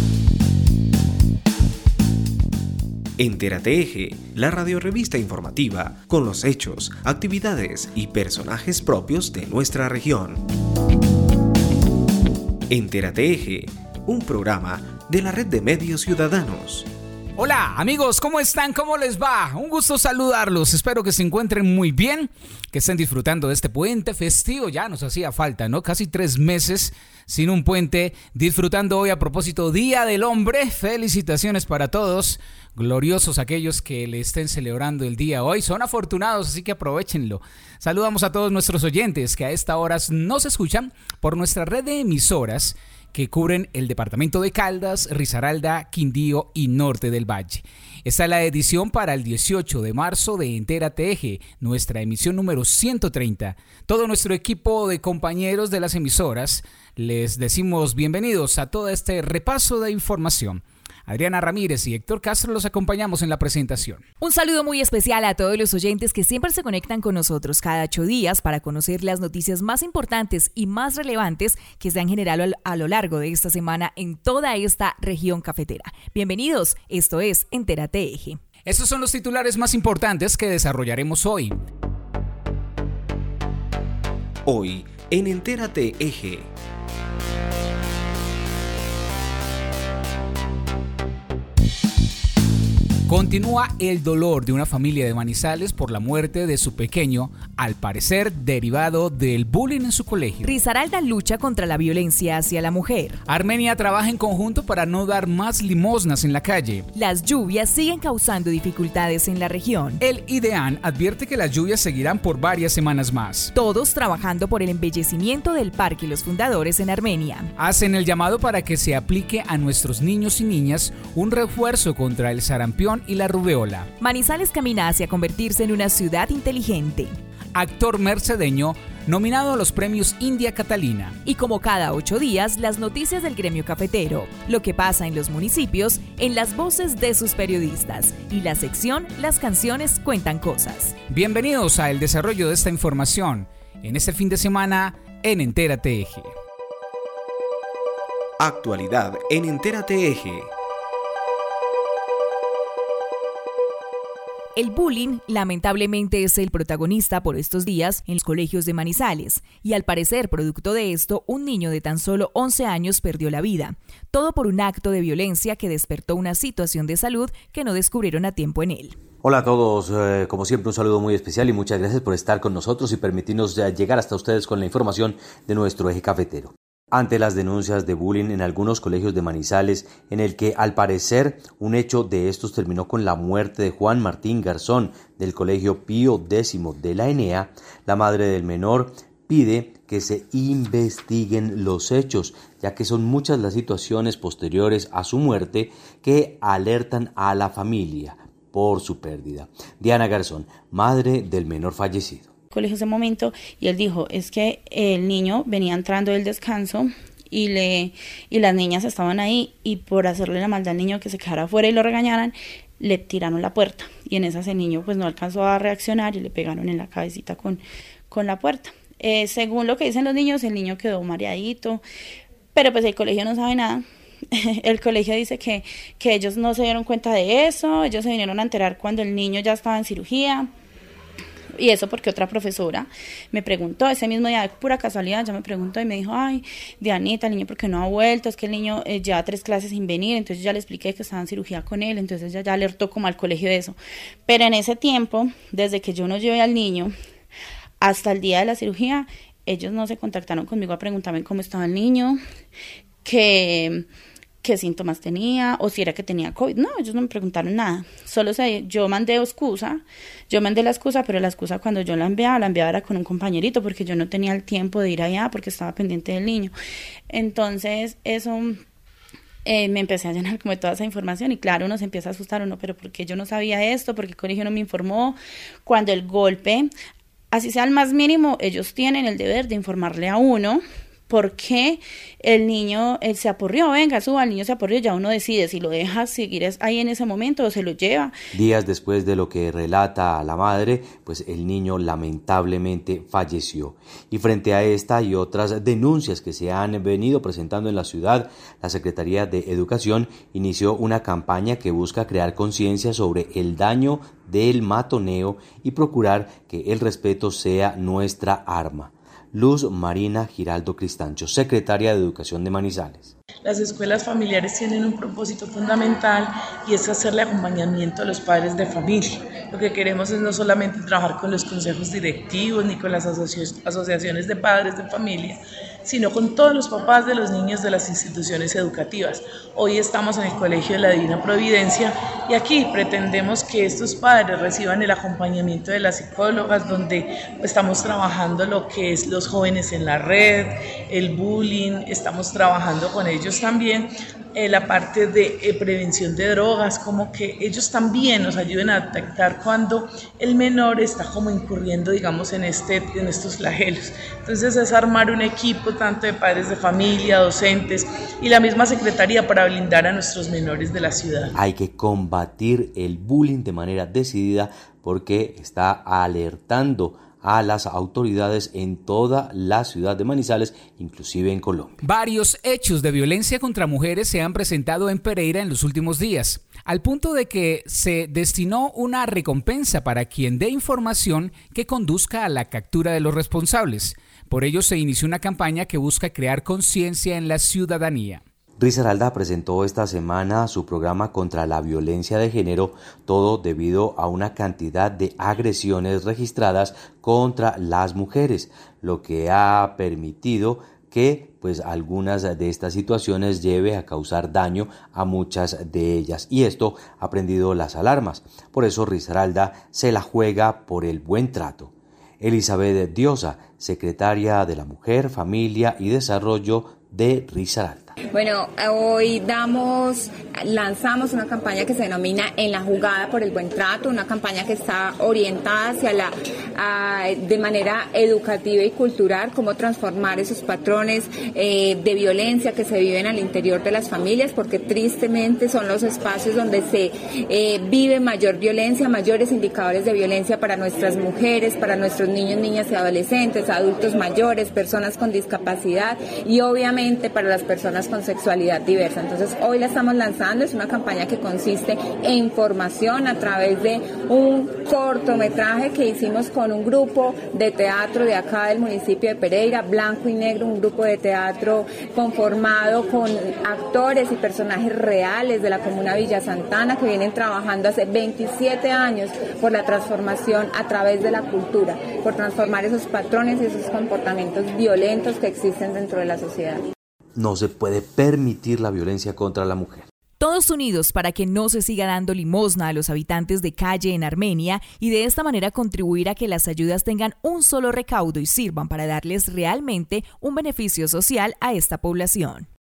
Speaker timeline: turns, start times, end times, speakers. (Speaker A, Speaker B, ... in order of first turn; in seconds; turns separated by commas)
Speaker A: 3.2-10.4, Speaker A: 12.7-16.9, Speaker B: 17.4-64.0, Speaker C: 64.2-78.4, Speaker B: 78.7-81.6, Speaker A: 84.5-86.5, Speaker B: 93.1-100.5, Speaker C: 100.4-103.2, Speaker B: 103.3-106.9, Speaker C: 106.9-110.0, Speaker B: 110.0-113.5, Speaker C: 113.5-117.5, Speaker B: 117.6-123.9, Speaker C: 124.0-127.2, Speaker B: 127.5-131.2, Speaker C: 131.2-141.0, Speaker B: 141.1-146.3, Speaker A: 148.4-150.5, Speaker C: 154.6-169.0, Speaker D: 169.2-202.3, Speaker E: 202.5-221.8, Speaker E: 222.5-230.5, Speaker E: 231.6-246.9, Speaker E: 247.8-252.2, Speaker E: 253.0-253.8, Speaker E: 254.4-266.5, Speaker E: 267.1-268.6, Speaker E: 269.4-276.7, Speaker E: 277.3-288.1, Speaker D: 288.3-313.1, Speaker F: 313.4-361.3, Speaker D: 361.3-371.8, Speaker B: 371.8-388.2, Speaker D: 388.6-418.0, Speaker G: 418.1-476.6, Speaker D: 477.1-479.9, Speaker C: 480.2-492.5